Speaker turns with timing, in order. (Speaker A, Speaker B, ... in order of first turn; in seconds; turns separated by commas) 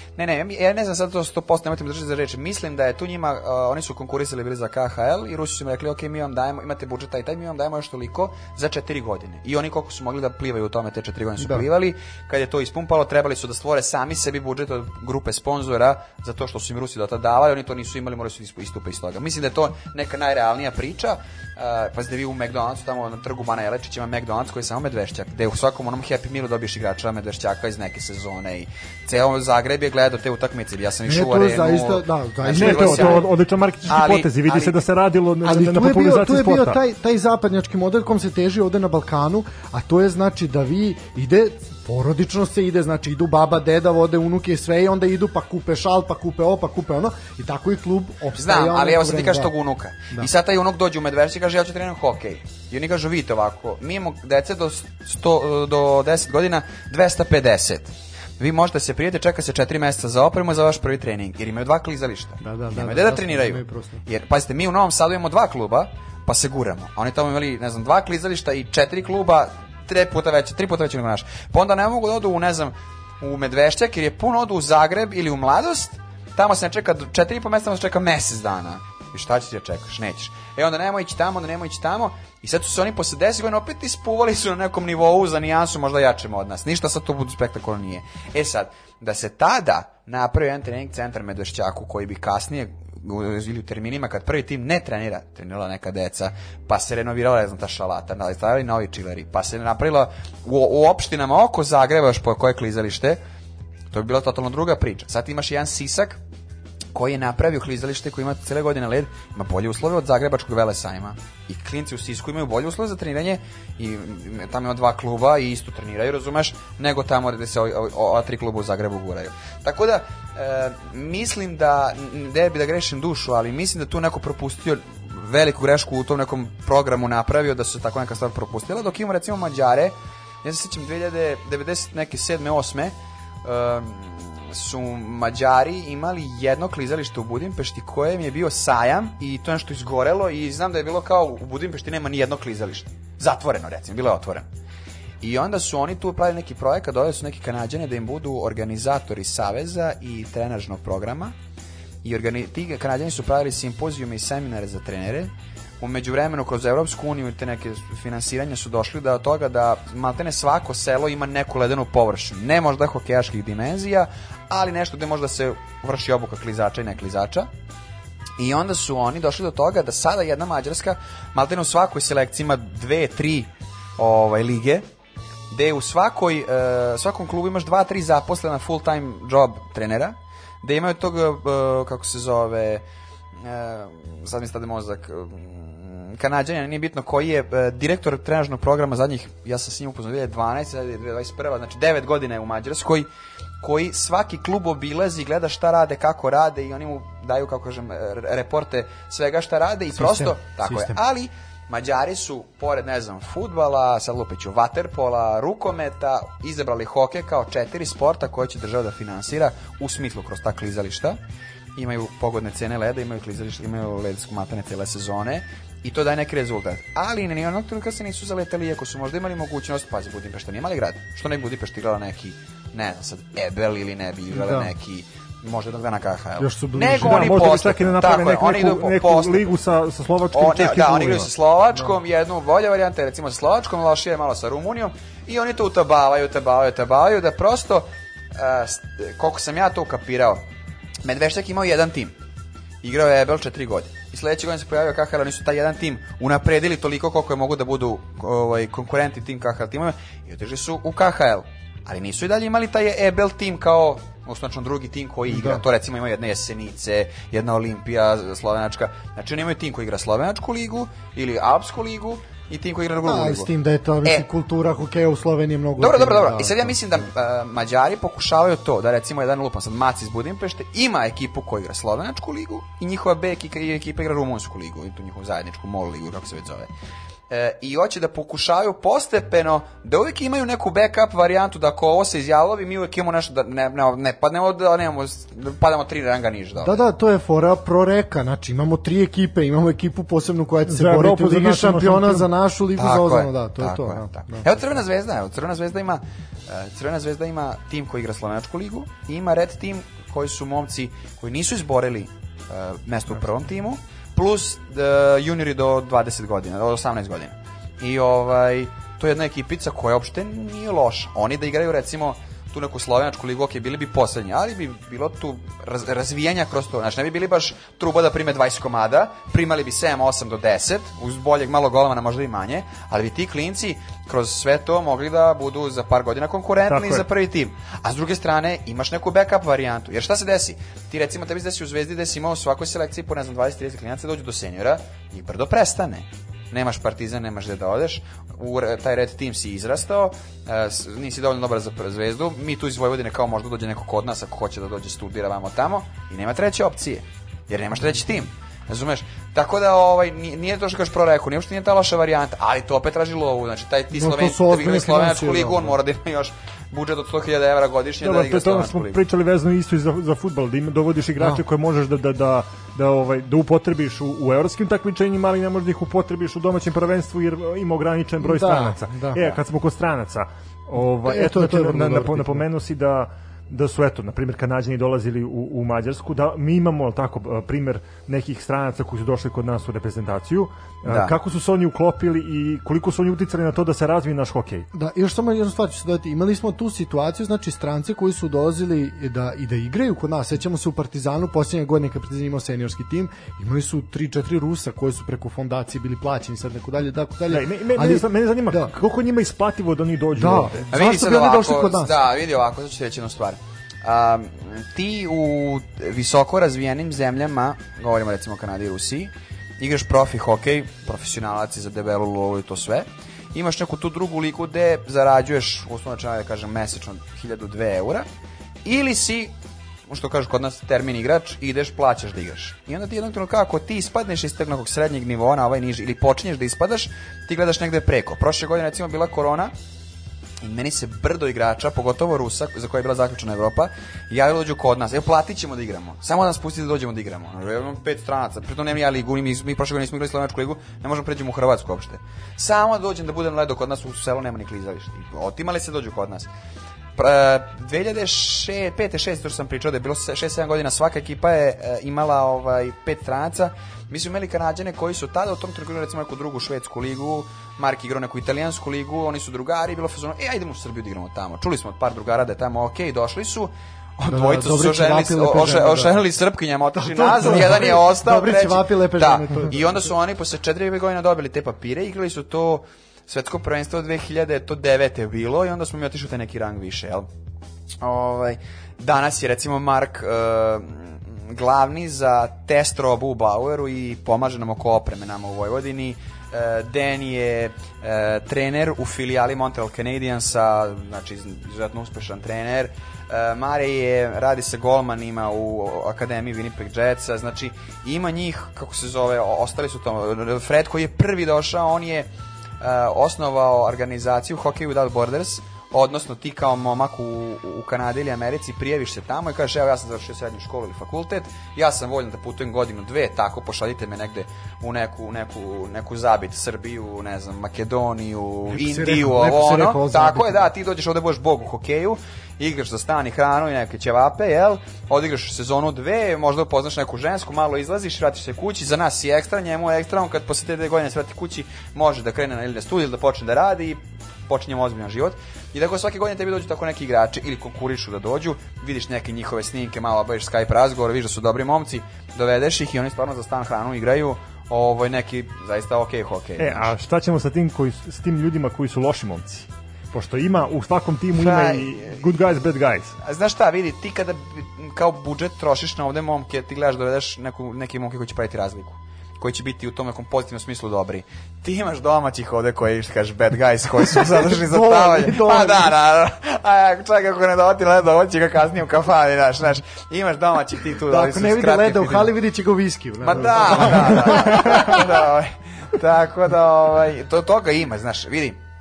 Speaker A: 0.2-33.3, Speaker B: 11.4-11.7, Speaker B: 31.1-33.3, Speaker C: 32.5-36.8, Speaker A: 33.9-34.8, Speaker B: 35.4-49.5, Speaker A: 48.4-103.2, Speaker B: 62.4-64.0, Speaker A: 103.9-106.2, Speaker A: 106.9-144.5, Speaker A: 145.2-151.3, Speaker A: 152.0-167.5, Speaker A: 168.4-174.9, Speaker A: 175.5-182.8, Speaker A: 183.4-193.1, Speaker A: 193.6-211.2, Speaker B: 199.9-201.0, Speaker A: 211.8-229.5, Speaker B: 224.3-224.7, Speaker B: 226.4-227.5, Speaker C: 226.9-231.3, Speaker A: 230.3-240.4, Speaker A: 241.0-242.2, Speaker A: 242.8-263.5, Speaker B: 255.3-255.6, Speaker B: 263.0-266.8, Speaker A: 265.8-276.7, Speaker A: 277.3-286.8, Speaker B: 286.6-294.5, Speaker C: 290.7-292.3, Speaker A: 292.8-359.0, Speaker C: 326.7-327.1, Speaker B: 353.9-355.8, Speaker C: 358.0-384.7, Speaker B: 361.2-361.4, Speaker B: 368.2-369.4, Speaker B: 371.0-372.5, Speaker A: 380.9-381.1, Speaker B: 384.7-398.8, Speaker C: 397.3-400.7, Speaker B: 400.2-402.0, Speaker A: 400.7-418.1, Speaker A: 418.6-419.3, Speaker A: 419.9-429.5, Speaker A: 430.4-446.3, Speaker A: 447.0-477.1, Speaker B: 464.1-465.9, Speaker B: 466.8-469.8, Speaker A: 477.8-502.1, Speaker A: 502.6-546.7, Speaker B: 518.5-520.5, Speaker C: 546.4-553.0, Speaker A: 551.1-552.1, Speaker A: 553.0-572.1, Speaker B: 563.9-565.7, Speaker B: 570.9-574.9, Speaker A: 573.0-578.4